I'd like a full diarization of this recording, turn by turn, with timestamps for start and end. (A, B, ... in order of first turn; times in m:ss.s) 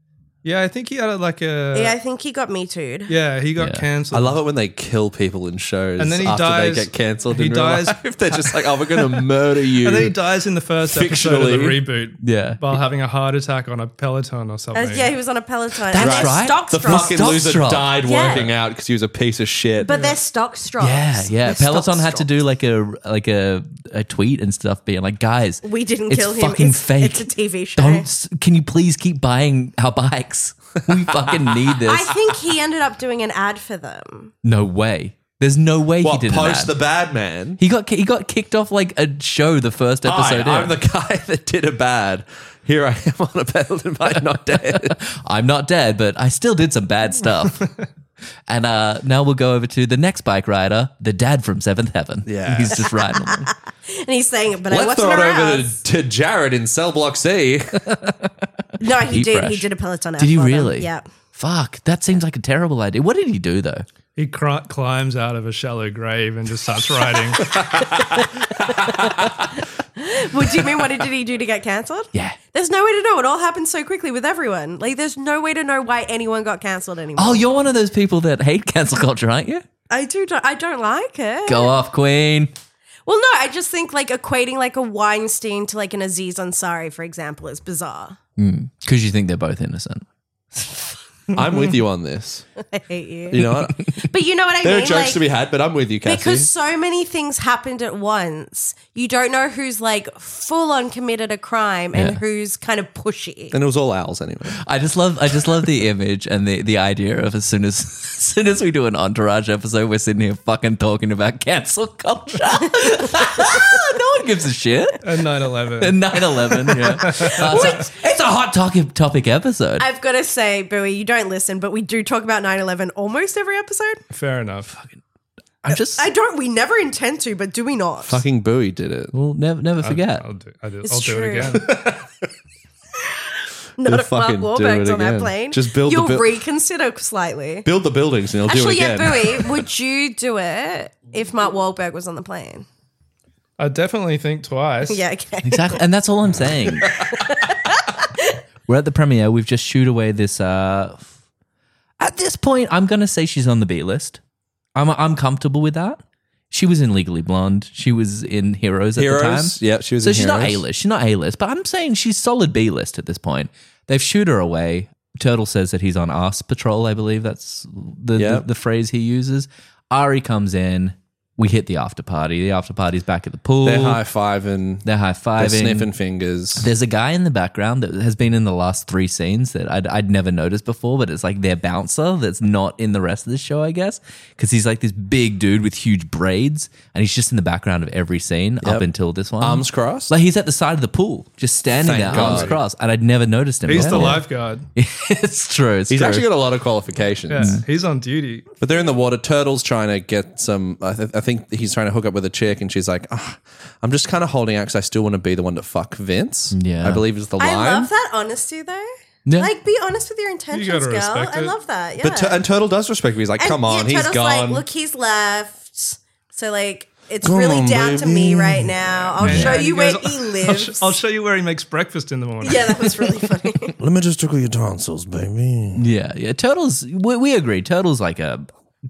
0:00.4-0:02.0 A
0:01.7-0:03.1 B
0:03.1-0:04.4 A
0:03.6-0:03.8 C
0:04.1-0:10.2 D
0:06.0-0:15.1 A
0:10.8-0:11.8 D
0:12.2-0:12.7 C
0:14.7-0:17.2 B
0:15.9-0:18.4 C
0:15.9-0:19.9 D
0:18.0-0:18.5 B
0:19.8-0:22.3 B
0:19.9-0:20.2 A
0:20.8-0:32.2 C
0:25.6-0:28.1 B
0:30.9-0:31.6 D
0:31.8-0:34.3 B
0:34.4-0:36.7 C
0:36.0-0:37.6 D
0:37.6-0:40.7 C
0:40.0-0:45.0 D
0:44.8-0:47.7 C
0:48.5-0:53.5 C
0:52.2-0:52.9 D
0:53.2-0:55.8 B
0:54.7-0:57.8 D
0:57.9-0:58.3 C
0:58.8-1:01.1 B
0:59.0-0:59.7 C
1:00.2-1:03.8 C
1:04.2-1:07.6 A
1:08.8-1:09.1 D
1:09.6-1:17.4 B
1:17.2-1:19.6 C
1:19.9-1:21.7 B
1:21.4-1:22.5 C
1:23.0-1:28.2 B
1:28.4-1:30.0 C
1:31.3-1:32.5 D
1:32.6-1:35.2 B
1:33.3-1:33.8 D
1:34.6-1:36.5 D
1:36.0-1:43.6 B
1:41.9-1:42.2 C
1:43.5-1:44.6 D
1:44.6-1:55.2 C
1:55.0-1:57.8 A
1:55.8-1:59.8 C
1:57.1-1:57.9 B
1:59.8-2:04.0 B
2:04.1-2:04.8 A
2:05.6-2:06.0 C
2:05.9-2:08.2 B
2:08.1-2:09.1 D
2:09.1-2:10.2 C
2:09.8-2:11.7 A
2:10.8-2:11.6 B
2:11.6-2:12.1 D
2:13.8-2:17.7 B
2:13.8-2:16.3 D
2:17.6-2:19.6 D
2:18.5-2:22.6 B
2:23.6-2:25.0 A
2:24.9-2:25.8 B
2:25.4-2:27.0 C
2:26.9-2:28.3 B
2:28.7-2:31.1 C
2:32.0-2:34.2 C
2:34.7-2:36.0 C
2:36.5-2:54.0 C
2:39.0-2:40.6 D
2:48.2-2:48.4 D
2:53.6-2:54.8 D
2:54.8-2:55.9 C
2:55.4-2:56.7 D
2:56.6-3:16.3 C
3:08.6-3:08.9 D
3:09.4-3:10.1 D
3:11.8-3:12.6 D
3:12.0-3:12.6 A
3:13.6-3:14.6 A
3:13.7-3:14.2 D
3:15.9-3:17.6 D
3:17.3-3:18.5 A
3:17.4-3:17.6 C
3:18.6-3:27.9 D
3:26.5-3:27.0 C
3:27.4-3:32.4 B
3:29.2-3:29.5 C
3:30.5-3:31.5 A
3:32.0-3:34.6 D
3:33.4-3:40.9 B
3:37.2-3:39.2 D
3:39.2-3:42.9 A
3:39.2-3:39.6 C
3:42.4-3:43.8 B
3:43.8-3:45.8 D
3:45.8-3:48.5 C